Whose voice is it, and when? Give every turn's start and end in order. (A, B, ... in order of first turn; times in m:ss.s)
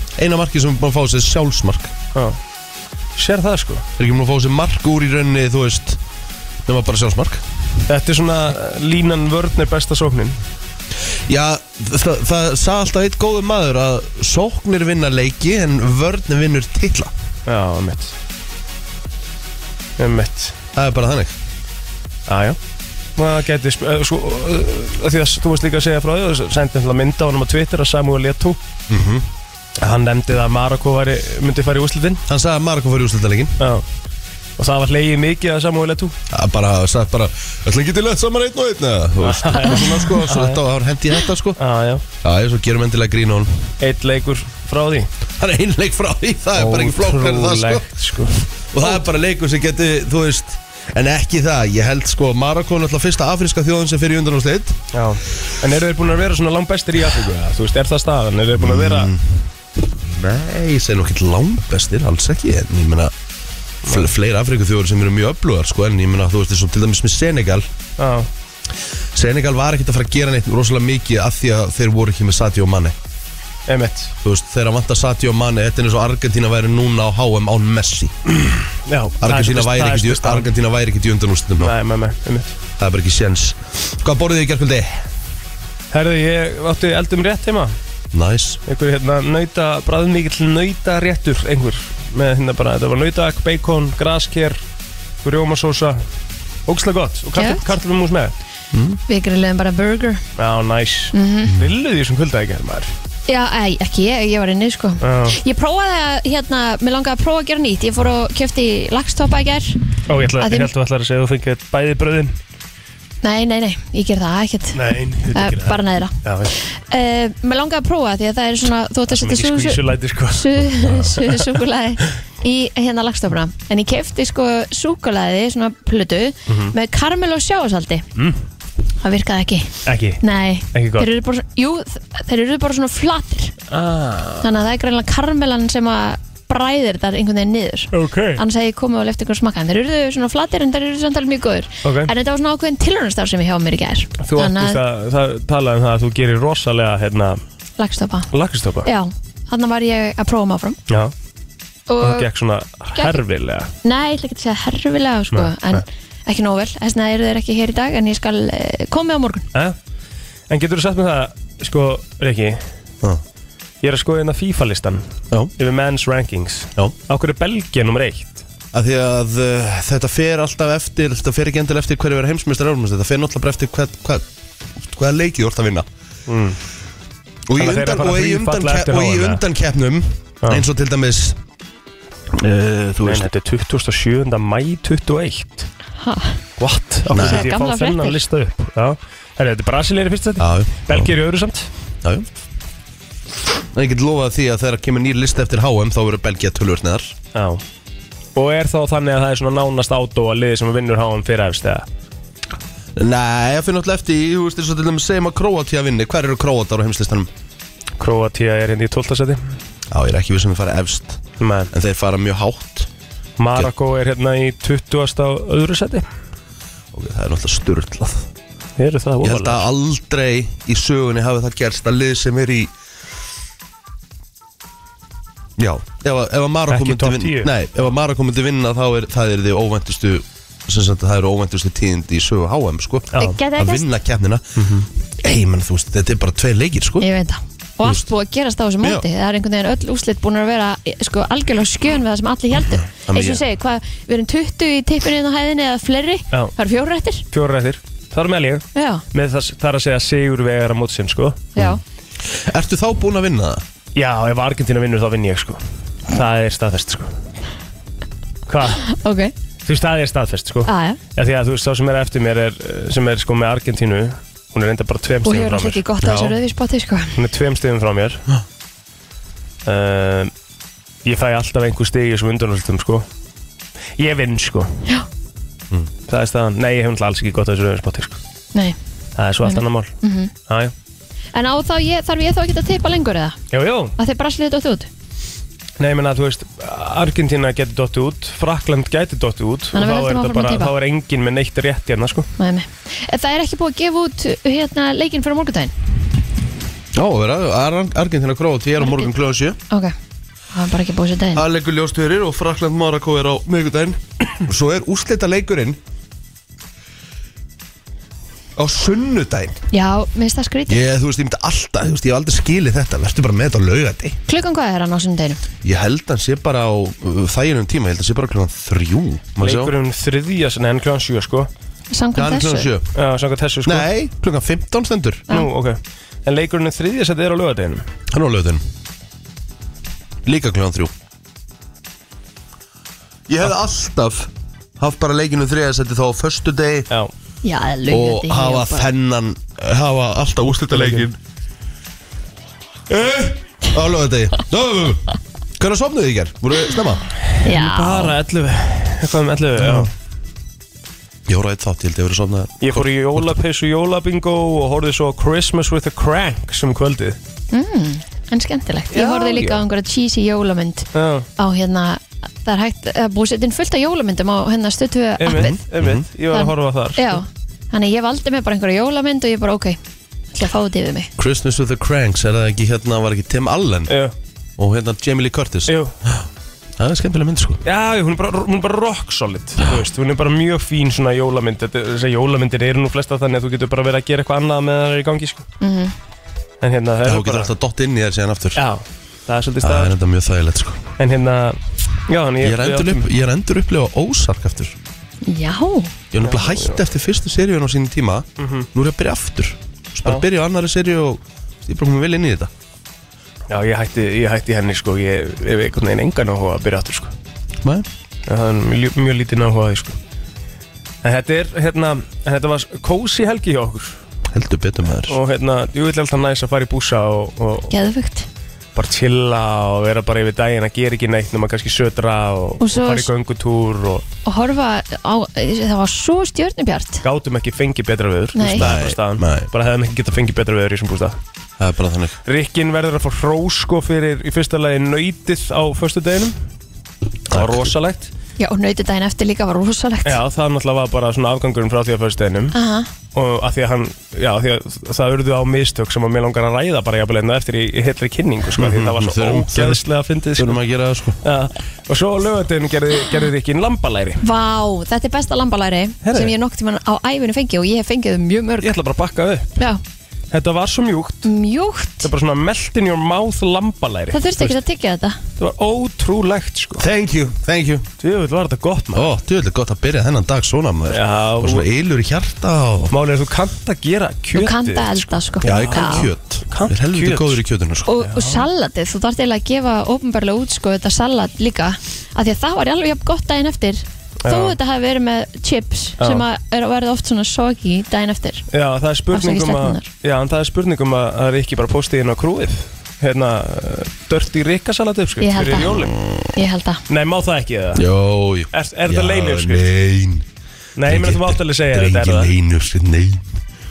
0:00.2-0:01.9 A
0:03.2-0:03.8 B
0:04.0-0:06.0 A
0:06.6-0:07.4 A
0:07.8-0:10.4 B
0:11.3-0:17.1 A
0:17.4-0:18.1 B
0:20.0-0:20.6 B
0:20.7-0:21.4 A
0:22.3-0:22.6 B
0:23.2-0:28.6 B
0:28.9-0:29.3 A
0:29.8-0:32.2 B
0:32.3-0:33.6 A
0:33.6-0:33.8 B
0:34.6-0:36.1 B
0:36.3-0:41.6 A
0:39.2-0:40.6 B
0:41.6-0:42.0 B
0:42.2-0:43.6 A
0:43.8-0:45.1 B
0:45.4-0:47.9 A
0:46.5-0:48.9 B
0:48.7-0:54.8 A
0:54.9-0:59.1 B
0:58.6-1:03.1 A
1:03.8-1:07.7 A
1:03.8-1:04.1 B
1:08.0-1:08.3 B
1:09.1-1:13.0 A
1:13.7-1:14.1 B
1:14.2-1:18.1 A
1:18.8-1:20.5 B
1:19.2-1:21.7 A
1:21.6-1:22.6 B
1:22.8-1:25.0 A
1:25.9-1:27.8 B
1:28.1-1:28.6 A
1:28.6-1:34.6 B
1:35.2-1:36.0 B
1:36.6-1:38.3 B
1:37.3-1:37.6 C
1:38.7-1:39.0 A
1:39.1-1:40.2 C
1:40.4-1:42.9 B
1:41.1-1:41.5 C
1:43.3-1:49.8 C
1:45.0-1:45.4 B
1:50.1-1:52.4 B
1:50.4-1:50.7 C
1:53.2-2:08.0 C
1:54.7-1:56.5 B
1:59.1-2:01.5 B
2:06.5-2:06.7 B
2:08.2-2:08.4 B
2:09.0-2:13.5 C
2:09.8-2:10.2 B
2:10.7-2:11.1 B
2:13.7-2:14.5 B
2:14.4-2:24.8 C
2:17.9-2:18.4 B
2:21.8-2:22.1 B
2:24.2-2:27.4 B
2:27.8-2:28.3 C
2:28.3-2:28.9 B
2:28.8-2:30.8 C
2:30.9-2:31.1 B
2:31.9-2:32.2 C
2:32.0-2:33.7 B
2:33.8-2:39.4 C
2:35.3-2:35.8 B
2:40.5-2:42.6 B
2:43.8-2:45.0 B
2:45.6-2:48.4 B
2:48.7-2:54.2 A
2:54.8-2:55.9 A
2:56.3-2:56.6 B
2:57.5-3:01.4 A
2:57.6-2:59.4 B
3:02.3-3:03.3 A
3:03.0-3:05.7 B
3:06.0-3:06.4 C
3:06.6-3:11.7 B
3:07.1-3:07.5 A
3:07.1-3:08.2 C
3:10.4-3:11.1 A
3:13.7-3:17.1 A
3:17.3-3:17.6 B
3:18.3-3:21.9 B
3:23.0-3:27.3 A
3:28.0-3:29.4 B
3:29.9-3:32.9 A
3:31.4-3:31.7 B
3:33.4-3:36.0 B
3:36.9-3:38.3 A
3:38.8-3:39.6 B
3:39.2-3:42.7 A
3:45.6-3:54.7 A
3:46.7-3:47.5 B
3:53.2-3:53.8 C
3:54.6-3:54.9 B
3:55.2-3:57.0 A
3:57.0-4:07.2 C
4:02.9-4:03.4 A
4:07.3-4:11.4 B
4:08.7-4:09.0 C
4:11.6-4:11.8 C
4:11.6-4:13.6 A
4:13.9-4:17.1 B
4:18.5-4:18.9 B
4:18.9-4:19.3 C
4:19.6-4:25.8 B
4:20.6-4:21.0 C
4:25.2-4:27.2 C
4:26.0-4:26.3 A
4:27.1-4:28.2 B
4:29.6-4:30.3 B
4:31.0-4:33.1 B
4:34.0-4:34.8 B
4:36.1-4:38.2 B
4:39.2-4:39.9 B
4:39.4-4:40.3 C
4:40.5-4:40.7 B
4:41.3-4:43.4 C
4:43.5-4:44.0 B
4:44.0-4:44.9 C
4:45.8-4:52.3 B
4:49.7-4:50.7 C
4:52.4-4:55.7 C
4:56.9-4:59.6 A
4:58.8-4:59.1 C
4:59.7-4:59.9 C
5:00.5-5:01.4 C
5:01.3-5:05.8 A
5:08.6-5:09.6 A
5:09.7-5:10.8 C
5:10.7-5:14.2 A
5:14.3-5:15.4 C
5:15.6-5:19.7 A
5:19.4-5:21.5 B
5:21.9-5:22.7 C
5:22.1-5:22.9 A
5:22.9-5:23.9 B
5:23.6-5:25.3 A
5:25.3-5:27.8 B
5:28.1-5:28.6 A
5:30.2-5:30.9 A
5:33.3-5:36.9 A
5:37.4-5:38.9 C
5:37.9-5:41.2 A
5:40.7-5:41.0 B
5:42.9-5:47.1 A
5:47.4-5:49.9 B
5:47.4-5:48.1 C
5:49.6-5:49.9 A
5:51.3-5:53.2 A
5:52.6-5:57.2 B
5:57.5-6:05.6 C
5:58.9-5:59.6 B
6:00.9-6:01.3 B
6:05.2-6:07.2 B
6:05.3-6:06.0 A
6:06.3-6:09.8 C
6:10.3-6:11.1 C
6:11.2-6:13.9 A
6:13.9-6:14.1 B
6:14.6-6:16.2 A
6:15.7-6:15.9 B
6:16.8-6:17.6 A
6:17.6-6:25.4 B
6:25.6-6:25.9 C
6:26.6-6:27.5 B
6:27.0-6:28.6 A
6:28.5-6:29.9 B
6:29.6-6:30.8 A
6:31.0-6:33.0 B
6:32.4-6:34.8 A
6:35.3-6:35.9 C
6:36.1-6:42.5 A
6:36.2-6:36.8 B
6:38.4-6:38.7 B
6:43.5-6:47.1 B
6:48.3-6:50.0 B
6:51.0-6:54.0 B
6:54.3-6:55.2 A
6:55.0-6:57.7 B
6:57.7-6:58.3 C
6:58.7-7:04.0 B
7:02.6-7:03.1 C
7:04.2-7:07.0 C
7:07.0-7:11.2 B
7:08.4-7:08.6 C
7:08.4-7:09.5 A
7:11.6-7:12.2 A
7:12.2-7:16.4 B
7:17.3-7:18.1 B
7:17.3-7:17.6 A
7:18.4-7:20.2 C
7:20.0-7:22.5 B
7:22.5-7:22.9 C
7:23.1-7:30.6 B
7:28.6-7:29.8 A
7:30.4-7:31.2 A
7:31.2-7:34.2 B
7:34.2-7:38.7 C
7:36.0-7:36.3 B
7:38.6-7:39.6 B
7:40.3-7:41.3 B
7:41.2-7:42.1 C
7:42.0-7:44.6 B
7:44.1-7:45.2 C
7:45.4-7:46.8 B
7:46.8-7:47.9 A
7:48.0-7:49.1 B
7:48.9-7:52.9 A
7:50.9-7:51.7 B
7:52.9-7:57.4 B
7:54.3-7:56.1 C
7:55.4-7:57.9 A
7:57.8-8:08.4 C
7:58.0-7:58.4 B
8:04.2-8:04.6 B
8:06.0-8:06.2 B
8:08.5-8:15.9 B
8:09.1-8:09.8 C
8:15.2-8:16.8 C
8:16.9-8:17.8 B
8:17.7-8:20.2 A
8:18.5-8:19.7 B
8:20.8-8:22.3 B
8:20.8-8:23.2 A